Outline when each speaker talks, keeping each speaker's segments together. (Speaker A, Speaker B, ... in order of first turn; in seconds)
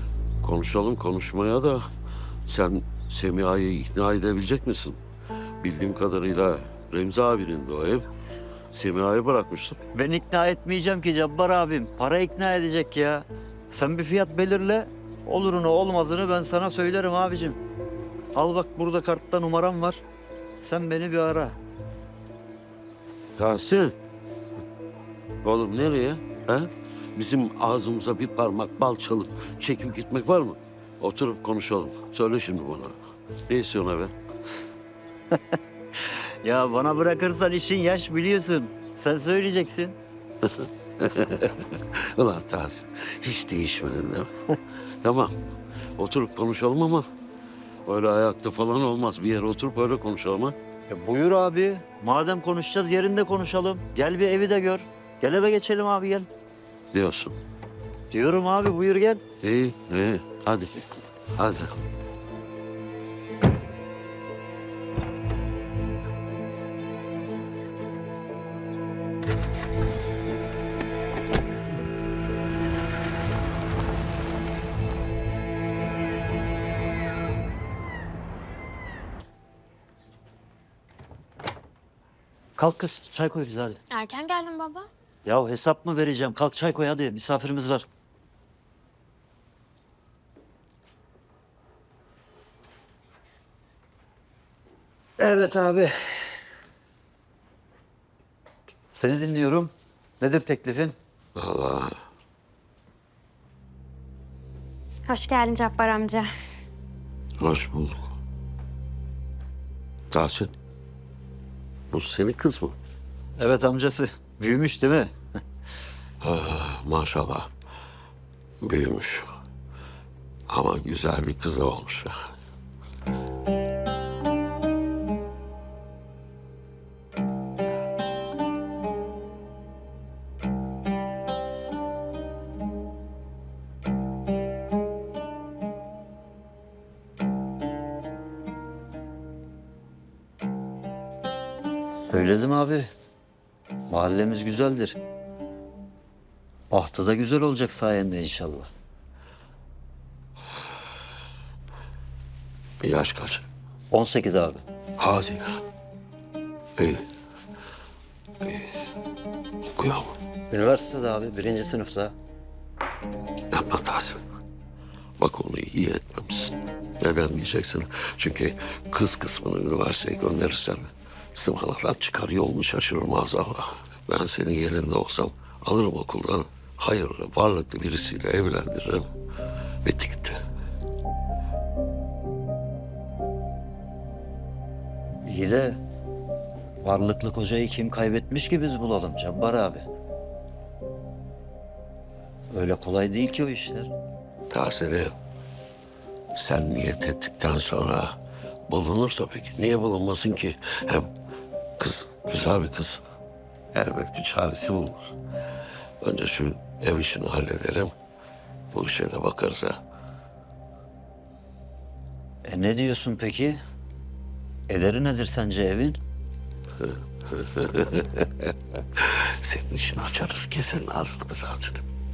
Speaker A: 0.4-1.9, 2.5-5.0, 5.6-8.0, 8.7-9.8, 23.4-23.9, 25.4-33.0, 33.5-34.1, 40.4-44.3, 45.0-45.3, 46.0-47.0, 47.9-50.5, 56.9-57.4, 59.4-61.7, 101.3-101.9, 107.4-108.0, 110.1-110.5, 111.9-112.8, 116.2-117.5, 118.6-119.2, 120.5-122.1, 152.8-153.4, 155.0-155.5, 156.8-157.0, 158.4-158.7, 159.8-160.1, 163.5-164.2, 165.2-179.1, 179.8-180.4, 194.5-195.1, 196.3-198.2, 198.7-201.1, 201.8-203.0, 203.7-205.1, 206.0-207.9, 208.7-209.8, 216.8-221.8
Speaker B: 9.9-17.6, 18.3-20.0, 20.6-21.6, 36.1-40.0, 50.9-56.3, 58.1-59.2, 82.6-83.8, 85.2-87.8, 95.2-96.0, 98.9-101.0, 113.4-115.1, 142.1-142.9, 143.9-145.0, 146.7-148.7, 153.9-154.6, 160.5-162.1, 185.2-185.8, 186.8-189.8, 192.5-193.9, 212.4-213.6, 214.7-216.0
Speaker C: 83.9-84.9, 105.1-106.3